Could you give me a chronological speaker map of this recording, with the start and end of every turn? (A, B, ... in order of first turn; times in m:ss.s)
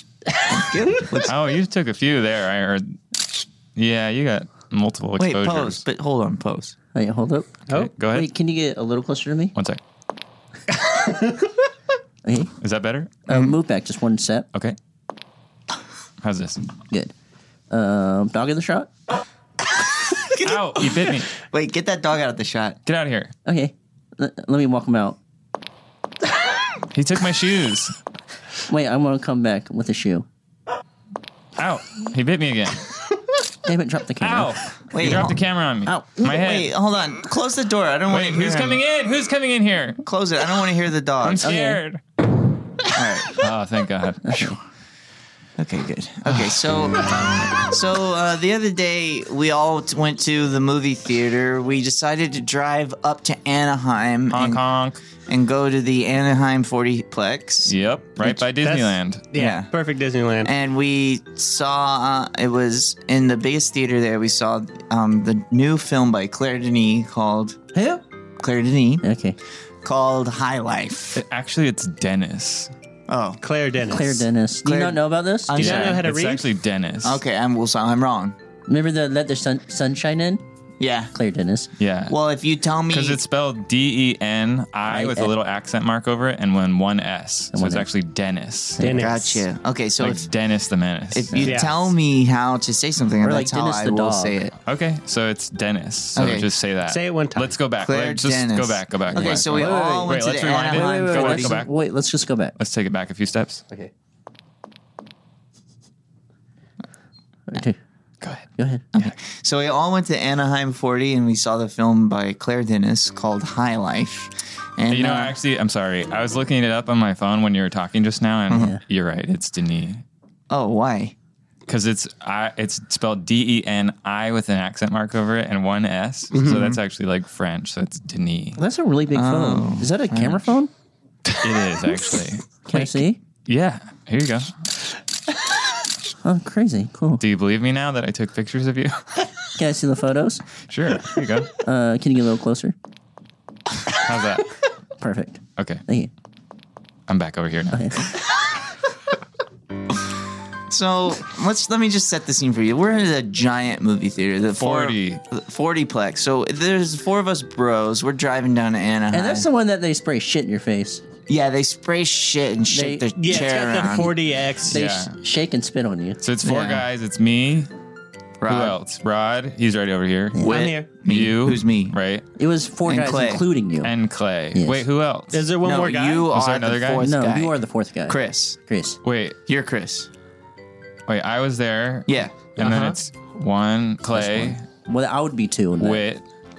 0:00.5-0:01.3 A
0:01.2-0:05.8 B
0:05.2-0:06.8 A
0:06.9-0:09.5 C
0:07.7-0:08.3 B
0:09.5-0:09.8 B
0:12.2-0:12.5 C
0:12.6-0:13.3 B
0:13.3-0:14.5 C
0:16.2-0:16.6 B
0:17.7-0:18.9 C
0:20.4-0:20.8 A
0:20.4-0:21.3 B
0:21.3-0:22.8 A
0:22.8-0:23.3 B
0:23.4-0:25.2 C
0:26.9-0:27.9 B
0:28.7-0:30.2 C
0:31.6-0:32.8 B
0:33.6-0:35.2 C
0:34.2-0:36.7 B
0:34.9-0:35.4 A
0:36.2-0:38.8 A
0:38.1-0:40.0 B
0:40.0-0:41.5 A
0:41.2-0:42.0 B
0:41.4-0:41.8 C
0:42.9-0:43.3 A
0:43.3-0:44.6 B
0:44.2-0:44.6 C
0:45.6-0:54.6 A
0:54.3-0:55.0 B
0:55.2-0:57.7 A
0:57.7-0:59.2 B
0:58.2-1:00.5 D
0:59.3-0:59.7 A
1:00.4-1:07.6 A
1:07.7-1:08.0 C
1:08.4-1:09.0 A
1:09.0-1:09.4 C
1:09.8-1:11.2 A
1:11.1-1:12.7 B
1:13.1-1:13.4 A
1:13.4-1:14.2 D
1:13.9-1:15.6 C
1:14.6-1:16.0 A
1:15.6-1:17.2 B
1:15.6-1:16.5 D
1:17.0-1:18.4 A
1:18.7-1:20.4 C
1:20.8-1:21.1 A
1:21.1-1:21.7 C
1:21.8-1:22.2 B
1:22.1-1:23.2 A
1:22.9-1:28.8 B
1:24.8-1:25.3 C
1:27.5-1:27.9 C
1:28.8-1:29.4 C
1:28.8-1:29.2 D
1:28.9-1:30.3 A
1:30.0-1:31.6 B
1:31.1-1:34.5 A
1:31.4-1:31.8 D
1:33.2-1:34.5 C
1:34.6-1:41.7 B
1:36.1-1:36.5 A
1:36.8-1:37.5 D
1:37.8-1:41.6 A
1:39.1-1:42.5 C
1:42.6-1:43.6 B
1:47.5-1:47.8 C
1:48.6-1:48.8 C
1:48.9-1:55.3 A
1:54.9-2:00.0 B
1:58.5-1:58.8 C
2:00.5-2:01.1 A
2:01.7-2:08.6 B
2:06.3-2:06.7 D
2:06.5-2:06.8 A
2:08.6-2:10.7 C
2:09.1-2:10.4 A
2:11.4-2:14.5 B
2:12.7-2:13.2 C
2:16.2-2:17.2 C
2:17.2-2:19.0 B
2:19.6-2:20.4 C
2:20.7-2:21.5 B
2:21.6-2:22.7 C
2:23.9-2:24.5 B
2:25.0-2:26.1 C
2:25.6-2:25.8 B
2:27.1-2:28.1 B
2:27.7-2:28.0 C
2:30.7-2:39.5 A
2:34.5-2:35.2 B
2:39.1-2:41.0 C
2:41.3-2:44.1 A
2:42.7-2:43.1 C
2:43.2-2:44.8 D
2:43.8-2:44.1 C
2:44.7-2:46.8 C
2:44.7-2:45.1 B
2:46.2-2:47.7 B
2:48.4-2:48.8 A
2:48.4-2:50.4 B
2:50.4-2:50.9 D
2:50.4-2:52.0 A
2:51.0-2:52.2 B
2:52.4-2:53.9 C
2:52.8-2:53.4 A
2:53.8-2:55.4 B
2:54.5-2:54.8 C
2:55.3-2:56.3 D
2:55.6-2:58.6 A
2:56.3-2:57.0 B
2:57.0-2:59.0 C
2:59.0-2:59.4 B
2:59.5-3:00.1 A
3:01.1-3:04.6 B
3:02.1-3:02.5 A
3:02.6-3:02.9 D
3:04.1-3:06.0 C
3:05.8-3:06.2 B